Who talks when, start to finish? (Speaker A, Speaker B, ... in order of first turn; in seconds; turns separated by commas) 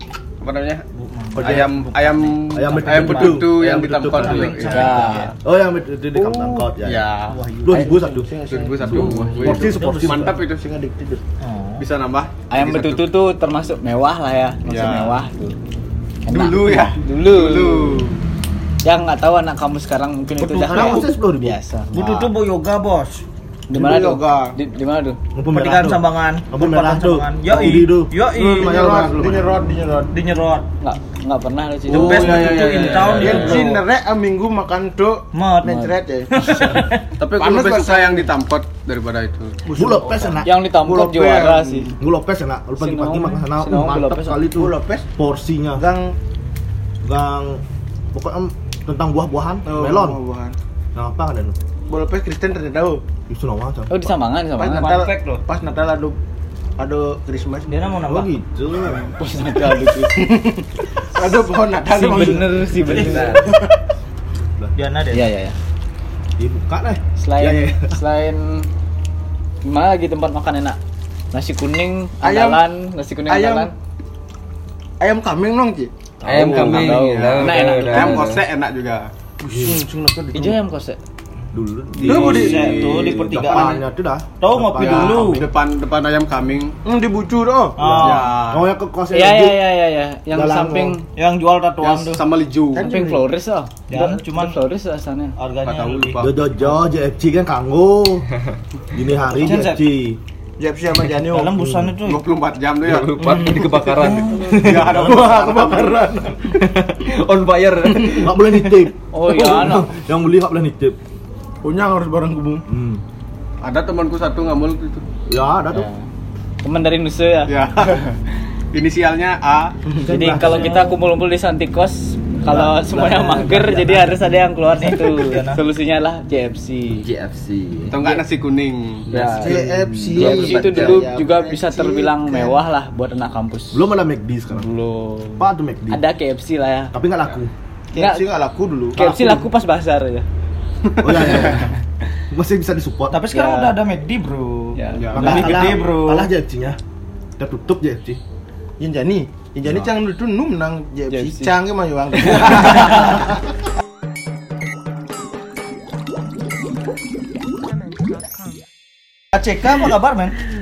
Speaker A: 0.4-0.8, Speaker B: 0.9-5.3, Speaker C: 1.3-1.9, Speaker A: 1.3-5.3, Speaker C: 2.5-7.1, Speaker D: 4.6-5.3, Speaker E: 6.2-6.7, Speaker B: 7.2-7.9, Speaker C: 7.6-8.3, Speaker E: 7.7-11.2, Speaker A: 8.5-10.7, Speaker C: 8.8-10.4, Speaker F: 8.9-9.5, Speaker B: 9.5-10.2, Speaker B: 11.4-11.8, Speaker A: 11.8-12.3, Speaker D: 12.5-15.6, Speaker F: 12.6-13.1, Speaker A: 14.7-15.2, Speaker D: 16.2-18.1, Speaker A: 16.3-18.2, Speaker D: 18.8-22.2, Speaker E: 20.4-21.1, Speaker C: 20.5-21.6, Speaker B: 21.9-23.2, Speaker D: 23.7-25.2, Speaker E: 23.7-24.6, Speaker C: 25.3-29.4, Speaker B: 25.5-28.7, Speaker E: 28.3-30.1, Speaker B: 30.1-30.7, Speaker D: 30.8-32.4, Speaker A: 31.9-33.6, Speaker B: 31.9-33.8, Speaker E: 32.0-36.5, Speaker C: 32.1-32.6, Speaker F: 32.9-33.6, Speaker B: 35.3-37.1, Speaker A: 37.2-39.6, Speaker E: 37.3-38.3, Speaker E: 39.6-42.0, Speaker C: 39.8-40.5, Speaker D: 40.4-41.9, Speaker C: 42.0-45.8, Speaker D: 42.8-44.4, Speaker E: 44.5-45.1, Speaker E: 45.7-46.1, Speaker C: 47.0-50.2, Speaker E: 49.6-50.5, Speaker C: 50.9-51.6, Speaker E: 51.9-53.0, Speaker C: 53.3-54.1, Speaker D: 53.9-55.0, Speaker E: 54.6-56.2, Speaker B: 54.7-55.4, Speaker E: 56.8-57.8, Speaker B: 57.7-58.3, Speaker C: 58.0-59.1, Speaker D: 59.0-60.3, Speaker E: 60.1-63.7, Speaker D: 61.9-63.4, Speaker C: 62.9-63.4, Speaker F: 63.0-63.5, Speaker C: 64.4-64.7, Speaker B: 64.7-65.3, Speaker D: 65.1-65.6, Speaker C: 66.4-68.0, Speaker D: 67.2-68.7, Speaker D: 69.6-70.8, Speaker D: 71.3-73.7, Speaker E: 72.2-72.6, Speaker E: 73.3-73.7, Speaker E: 75.0-75.9, Speaker D: 76.2-78.2, Speaker F: 76.2-78.4, Speaker A: 76.4-79.1, Speaker E: 79.4-80.6, Speaker C: 79.5-79.8, Speaker D: 80.3-81.0, Speaker C: 81.5-85.5, Speaker A: 81.9-83.8, Speaker B: 82.0-83.8, Speaker E: 82.0-83.0, Speaker B: 84.4-85.5, Speaker A: 84.8-86.8, Speaker E: 86.8-87.8, Speaker B: 87.8-88.5, Speaker C: 87.8-89.6, Speaker A: 88.0-88.7, Speaker D: 89.1-91.0, Speaker C: 90.3-91.0, Speaker B: 91.1-92.2, Speaker A: 91.8-92.9, Speaker E: 92.7-93.3, Speaker D: 92.8-95.3, Speaker B: 93.9-94.6, Speaker B: 95.4-96.3, Speaker A: 95.6-96.3, Speaker C: 96.2-98.3, Speaker C: 98.9-100.2, Speaker B: 99.3-99.9, Speaker E: 100.6-101.6, Speaker B: 101.2-102.3, Speaker C: 101.5-102.0, Speaker A: 102.0-103.2, Speaker F: 102.8-104.6, Speaker E: 103.2-103.9, Speaker B: 103.2-104.5, Speaker C: 104.3-106.5, Speaker A: 104.5-106.1, Speaker E: 104.9-106.3, Speaker F: 106.6-108.4, Speaker C: 108.0-111.0, Speaker D: 109.1-109.9, Speaker E: 111.6-112.7, Speaker C: 112.7-113.0, Speaker A: 113.6-115.0, Speaker C: 115.3-115.9, Speaker D: 115.7-116.0, Speaker D: 116.6-118.2, Speaker A: 117.5-118.0, Speaker A: 118.7-119.8, Speaker E: 119.8-120.1, Speaker C: 120.0-120.9, Speaker D: 120.0-127.1, Speaker B: 120.4-120.8, Speaker C: 122.5-124.1, Speaker B: 124.7-125.6, Speaker F: 127.0-128.0, Speaker A: 127.9-129.1, Speaker D: 128.0-128.2, Speaker F: 129.1-131.1, Speaker D: 129.1-129.6, Speaker E: 129.4-132.6, Speaker D: 130.1-133.8, Speaker C: 133.7-134.7, Speaker D: 134.5-136.9, Speaker C: 135.4-136.0, Speaker C: 136.9-137.5, Speaker E: 137.9-139.0, Speaker D: 137.9-138.2, Speaker D: 138.9-140.3, Speaker C: 138.9-139.5, Speaker C: 141.0-141.7, Speaker D: 141.3-141.7, Speaker C: 142.3-143.2, Speaker B: 143.1-146.3, Speaker D: 143.3-143.8, Speaker D: 144.8-145.6, Speaker A: 144.9-145.7, Speaker C: 145.1-146.8, Speaker C: 147.4-148.2, Speaker E: 148.8-153.3, Speaker D: 151.1-151.5, Speaker D: 152.2-153.2, Speaker B: 159.3-160.4